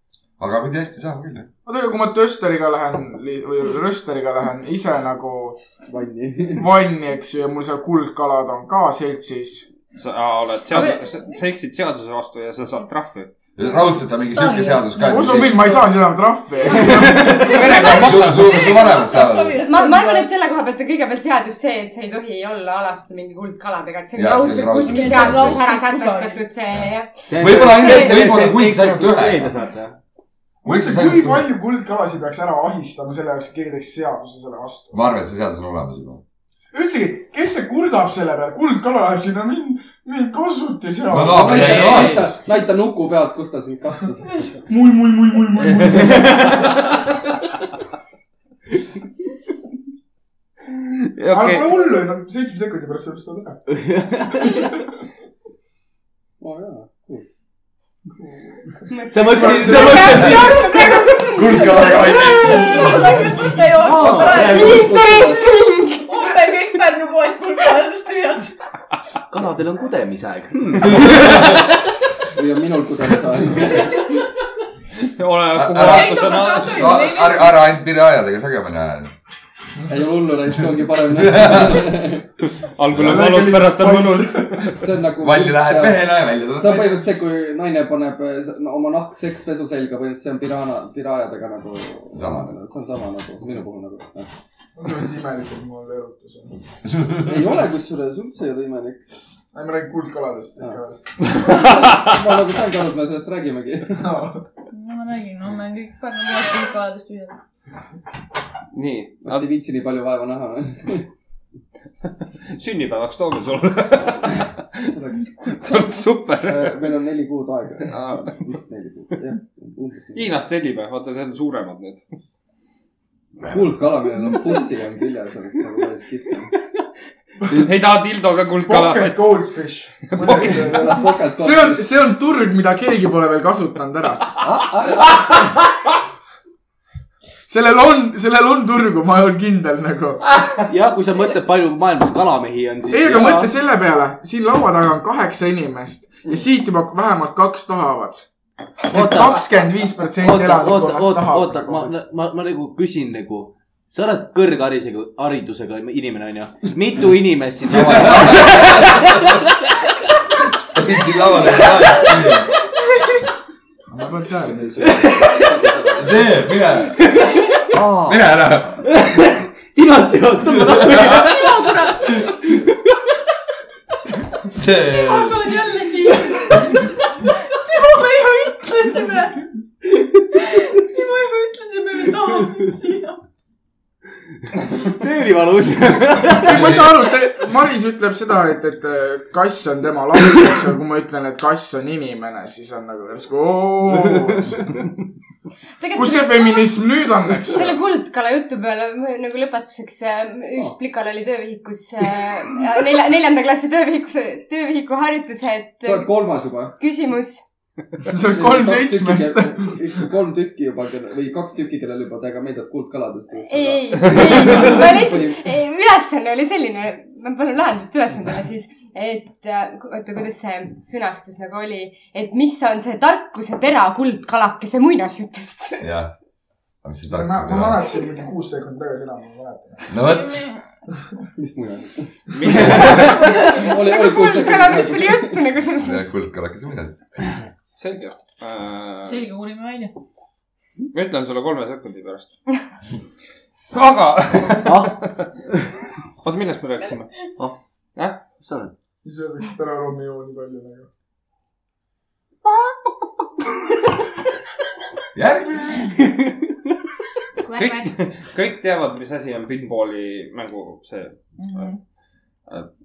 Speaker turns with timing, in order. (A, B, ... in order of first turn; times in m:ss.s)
0:00.4-0:01.5 A
0:01.6-0:05.6 B
0:05.7-0:06.6 C
0:06.6-0:09.7 B
0:09.9-0:13.3 D
0:10.7-0:11.4 E
0:13.6-0:15.7 A
0:14.3-0:16.0 E
0:15.0-0:18.0 B
0:16.7-0:18.7 D
0:16.7-0:20.3 E
0:17.7-0:19.6 A
0:19.6-0:28.3 F
0:24.1-0:25.6 A
0:24.7-0:26.4 E
0:26.7-0:29.5 A
0:27.3-0:30.0 G
0:30.6-0:31.5 A
0:30.6-0:35.0 B
0:34.9-0:36.2 A
0:36.7-0:42.1 B
0:41.1-0:42.4 A
0:41.3-0:44.6 C
0:41.4-0:42.3 D
0:44.6-0:46.8 B
0:46.0-0:46.6 G
0:51.2-0:51.7 D
0:51.3-0:53.6 B
0:53.7-0:54.6 G
0:54.4-0:54.8 B
0:56.4-0:57.2 C
0:58.2-1:00.1 B
0:58.9-1:02.9 F
0:59.1-1:01.0 G
0:59.8-1:03.9 A
1:02.2-1:08.5 E
1:03.8-1:05.0 G
1:04.2-1:05.5 C
1:04.4-1:06.3 F
1:09.3-1:11.6 G
1:12.3-1:14.0 C
1:15.0-1:17.0 D
1:15.5-1:19.1 A
1:15.8-1:17.6 E
1:19.9-1:22.3 C
1:21.0-1:22.0 A
1:22.7-1:24.8 D
1:22.9-1:23.2 A
1:22.9-1:24.8 B
1:24.8-1:34.3 C
1:25.2-1:27.2 A
1:32.1-1:32.5 A
1:34.8-1:36.5 B
1:37.2-1:39.0 C
1:39.5-1:41.0 B
1:41.5-1:44.1 C
1:43.9-1:44.4 B
1:44.7-1:47.4 E
1:48.7-1:49.5 D
1:49.2-1:51.0 C
1:52.4-1:54.9 D
1:54.8-1:55.3 C
1:55.4-1:56.8 D
1:56.4-2:00.3 C
1:57.8-1:58.4 D
2:00.1-2:02.0 D
2:03.4-2:06.5 C
2:07.5-2:09.4 D
2:08.6-2:14.3 B
2:10.1-2:10.8 D
2:10.1-2:11.9 C
2:14.4-2:15.4 C
2:17.5-2:20.2 B
2:20.7-2:23.5 G
2:22.9-2:28.3 B
2:28.8-2:31.9 B
2:28.9-2:29.4 G
2:30.2-2:39.4 G
2:37.6-2:39.3 A
2:40.7-2:42.5 A
2:43.9-2:45.3 B
2:44.5-2:46.3 C
2:44.8-2:45.6 G
2:46.0-2:47.0 A
2:46.9-2:48.1 G
2:47.8-2:48.1 C
2:48.0-2:48.8 A
2:48.8-2:51.7 G
2:50.7-2:51.2 A
2:51.0-2:52.2 E
2:54.5-2:55.7 A
2:54.8-2:59.4 E
3:00.3-3:03.2 E
3:04.7-3:06.6 G
3:06.3-3:14.8 B
3:06.5-3:06.8 A
3:15.8-3:16.8 F
3:15.9-3:17.8 B
3:17.4-3:27.4 F
3:25.8-3:26.7 C
3:28.1-3:29.8 B
3:28.3-3:35.4 C
3:33.4-3:45.9 F
3:45.8-3:46.1 A
3:46.8-3:48.0 A
3:47.1-3:50.0 B
3:49.9-3:50.5 A
3:50.0-3:50.6 E
3:51.4-3:55.4 C
3:52.3-3:53.2 D
3:52.5-3:53.1 A
3:52.9-3:53.7 E
3:53.1-3:56.1 F
3:55.8-3:57.0 A
3:57.8-3:59.2 D
3:59.0-3:59.9 E
4:00.9-4:02.4 D
4:03.7-4:05.3 D
4:04.6-4:05.0 G
4:06.2-4:07.2 D
4:08.0-4:08.2 D
4:08.4-4:08.7 G
4:09.0-4:10.9 B
4:15.1-4:15.9 A
4:16.0-4:16.3 G
4:17.4-4:17.9 E
4:17.5-4:21.7 D
4:21.4-4:21.8 E